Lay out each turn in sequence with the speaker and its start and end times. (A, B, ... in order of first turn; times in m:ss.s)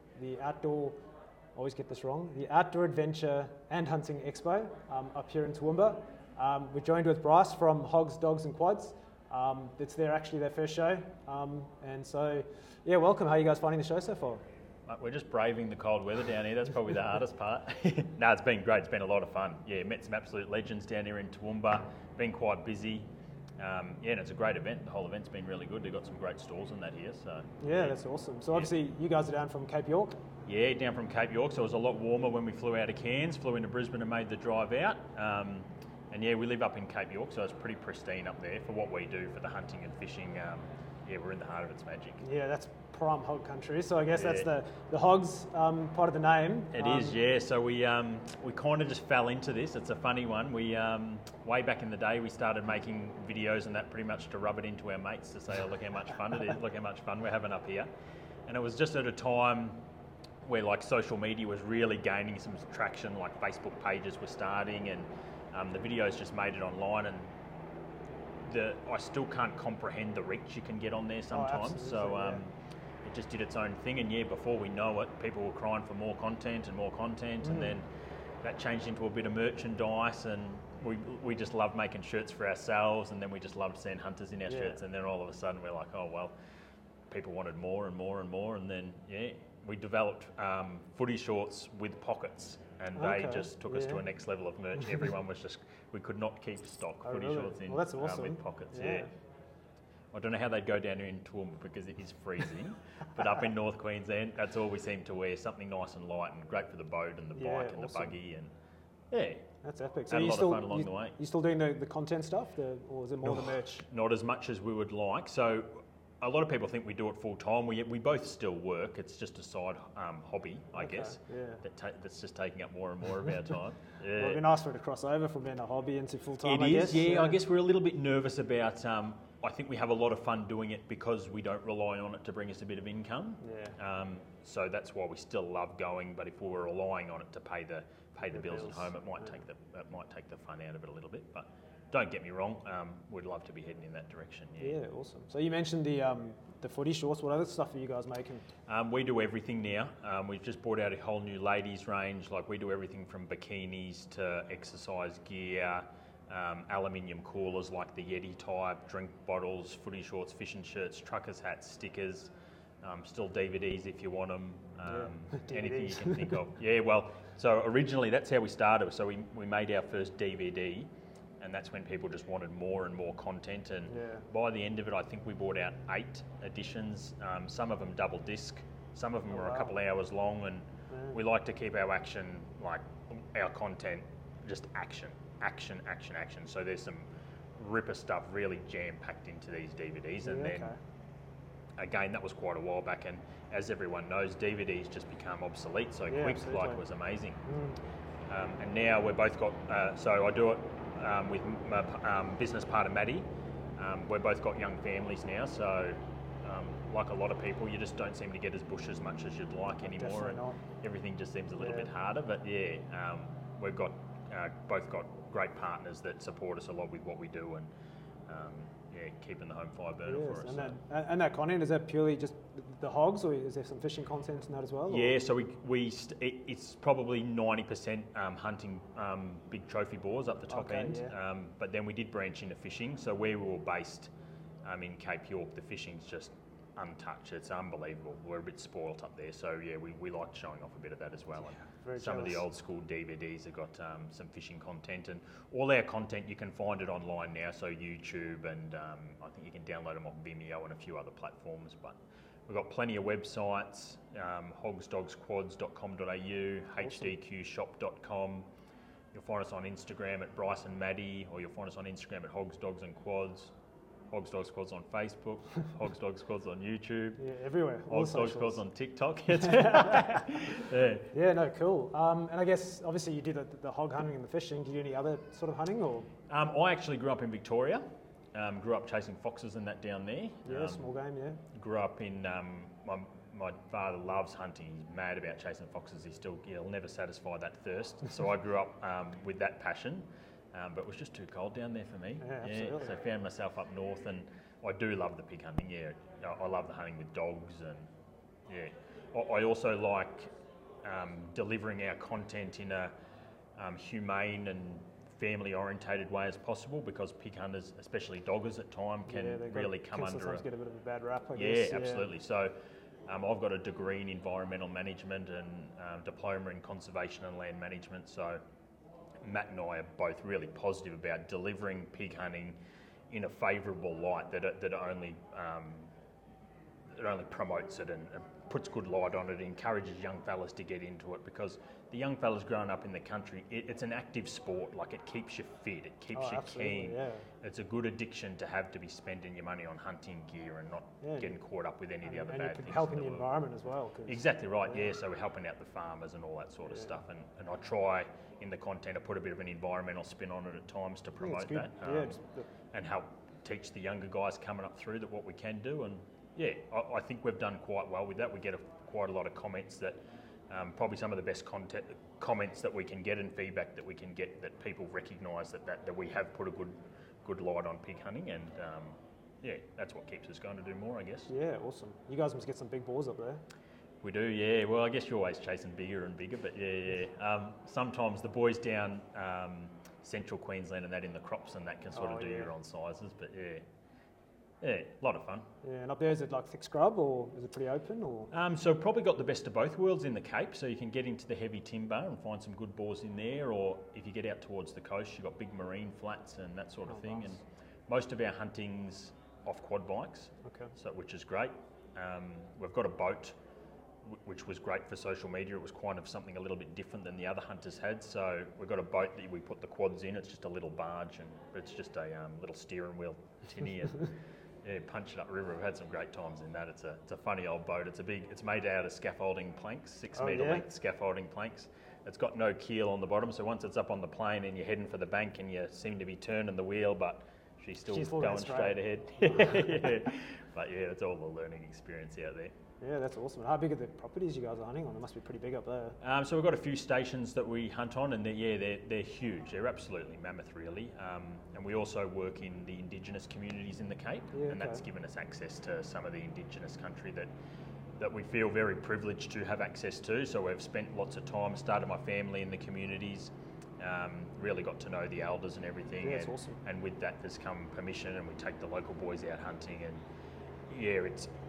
0:00.2-0:01.0 A
0:01.6-0:14.4 A
0:14.9-0:23.1 B
0:23.6-0:28.0 B
0:27.6-0:30.2 A
0:30.5-0:42.2 B
0:42.2-0:47.2 A
0:44.1-0:44.5 B
0:46.7-0:57.9 B
0:58.5-0:59.8 B
1:00.4-1:07.3 B
1:08.4-1:12.5 B
1:11.3-1:12.4 A
1:13.0-1:17.9 B
1:17.4-1:17.8 A
1:18.4-1:26.3 B
1:24.5-1:24.8 A
1:27.1-1:39.1 B
1:33.0-1:34.0 A
1:37.0-1:39.1 A
1:40.1-1:48.5 B
1:47.4-1:48.2 A
1:49.1-1:49.5 B
1:49.6-1:53.9 A
1:50.1-1:51.2 B
1:53.2-2:04.4 B
2:00.8-2:01.6 A
2:04.1-2:07.4 A
2:06.4-2:24.8 B
2:13.4-2:13.8 A
2:18.3-2:18.9 A
2:24.6-2:28.5 A
2:28.7-2:42.3 B
2:42.8-2:50.9 B
2:44.9-2:46.3 A
2:51.4-3:10.7 B
2:53.9-2:54.3 A
2:59.3-2:59.7 A
3:00.9-3:01.2 A
3:10.2-3:10.8 A
3:11.8-3:17.4 B
3:16.1-3:16.8 A
3:17.4-3:17.8 A
3:18.3-3:37.7 B
3:29.8-3:30.6 A
3:31.6-3:31.9 A
3:38.3-3:40.8 B
3:40.0-3:45.2 A
3:44.9-3:54.1 B
3:50.5-3:51.1 A
3:54.7-4:18.5 B
4:01.8-4:02.4 A
4:16.8-4:17.1 A
4:19.1-4:23.5 B
4:24.1-4:27.2 B
4:27.2-4:28.6 A
4:27.9-4:31.1 B
4:29.5-4:30.1 A
4:31.1-4:36.1 A
4:36.3-4:40.9 B
4:40.5-4:41.4 A
4:41.5-4:57.9 B
4:52.2-4:53.0 A
4:58.5-5:00.3 B
5:00.8-5:02.9 B
5:03.6-5:10.4 B
5:09.1-5:12.0 A
5:11.4-5:12.6 B
5:13.1-5:18.4 B
5:19.2-5:22.6 B
5:23.1-5:25.9 B
5:26.9-5:43.4 B
5:36.1-5:37.3 A
5:41.0-5:41.4 A
5:42.0-5:44.9 A
5:44.1-5:52.2 B
5:51.2-5:52.5 A
5:52.7-6:00.0 B
6:00.5-6:11.3 B
6:11.3-6:13.4 A
6:14.0-6:23.6 B
6:21.9-6:22.5 A
6:24.6-6:25.4 B
6:25.6-6:28.3 A
6:28.3-6:43.3 B
6:36.9-6:37.3 A
6:40.4-6:40.7 A
6:44.1-6:54.1 B
6:54.6-7:12.5 B
7:00.2-7:00.6 A
7:07.8-7:09.7 A
7:12.8-7:16.0 A
7:16.0-7:27.3 B
7:24.3-7:24.8 A
7:28.0-7:40.0 B
7:36.0-7:36.6 A
7:40.7-7:41.3 B